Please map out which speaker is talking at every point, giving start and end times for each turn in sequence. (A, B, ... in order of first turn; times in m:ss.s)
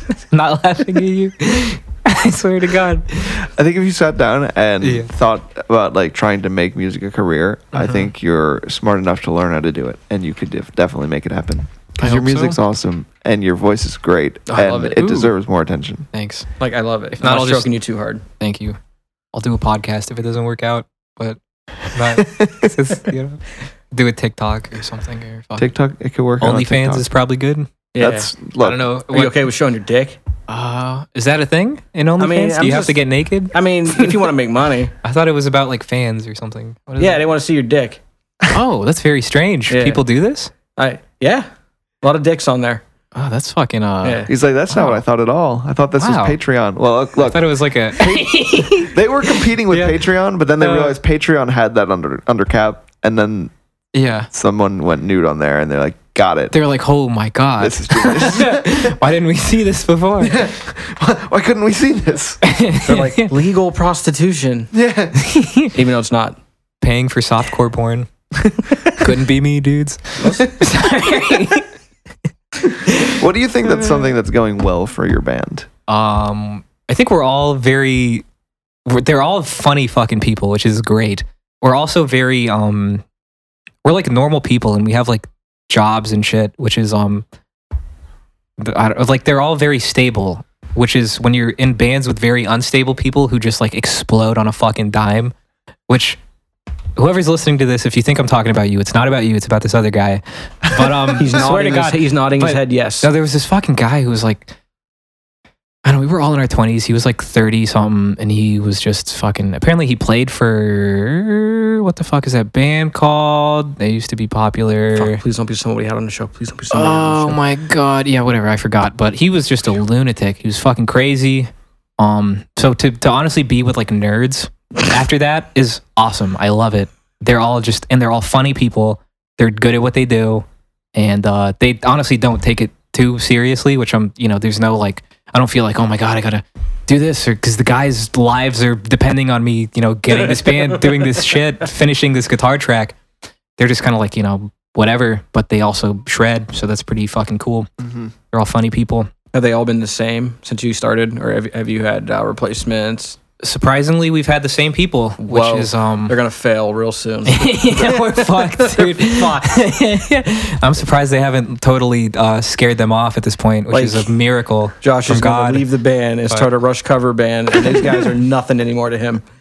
0:00.2-0:03.4 A
0:03.3-0:16.1 B
0:04.8-0:05.1 A
0:07.7-0:08.1 A
0:12.0-0:12.6 A
0:14.5-0:15.1 C
0:14.9-0:15.3 A
0:16.1-0:16.4 A
0:16.6-0:18.2 C
0:17.2-0:17.7 A
0:18.4-0:18.8 A
0:19.3-0:25.7 A
0:25.6-0:27.0 B
0:26.4-0:27.7 A
0:27.9-0:28.3 C
0:28.0-0:28.8 B
0:28.6-0:29.4 A
0:29.1-0:30.2 C
0:30.5-0:34.3 A
0:32.2-0:33.0 C
0:33.5-0:34.9 C
0:35.0-0:37.2 A
0:37.0-0:38.0 C
0:38.5-0:40.5 A
0:39.7-0:40.0 C
0:40.8-0:41.5 C
0:42.0-0:42.8 C
0:43.1-0:45.0 A
0:44.0-0:44.3 C
0:44.3-0:53.5 B
0:46.0-0:46.4 A
0:47.2-0:50.0 A
0:50.6-0:51.0 A
0:53.9-0:54.3 A
0:54.3-0:56.5 B
0:56.5-1:00.5 A
0:57.6-0:59.0 B
1:00.2-1:02.4 B
1:02.4-1:03.3 A
1:02.8-1:04.7 C
1:04.7-1:05.2 B
1:05.2-1:05.7 A
1:05.7-1:06.4 C
1:06.8-1:08.1 A
1:08.9-1:11.7 A
1:10.2-1:10.5 C
1:12.8-1:13.2 A
1:13.1-1:15.7 B
1:15.9-1:18.2 A
1:18.8-1:23.0 A
1:23.8-1:27.2 A
1:28.6-1:35.3 A
1:35.9-1:36.2 A
1:37.0-1:44.5 A
1:40.7-1:41.2 B
1:41.2-1:43.1 C
1:45.8-1:55.2 A
1:55.0-1:57.4 C
1:56.7-2:23.0 A
2:20.1-2:21.0 C
2:23.6-2:27.7 A
2:27.8-2:28.1 B
2:28.3-2:29.1 A
2:29.3-2:33.2 C
2:33.4-2:36.1 A
2:35.2-2:39.6 C
2:37.2-2:45.6 A
2:43.7-2:44.1 C
2:44.8-2:49.2 C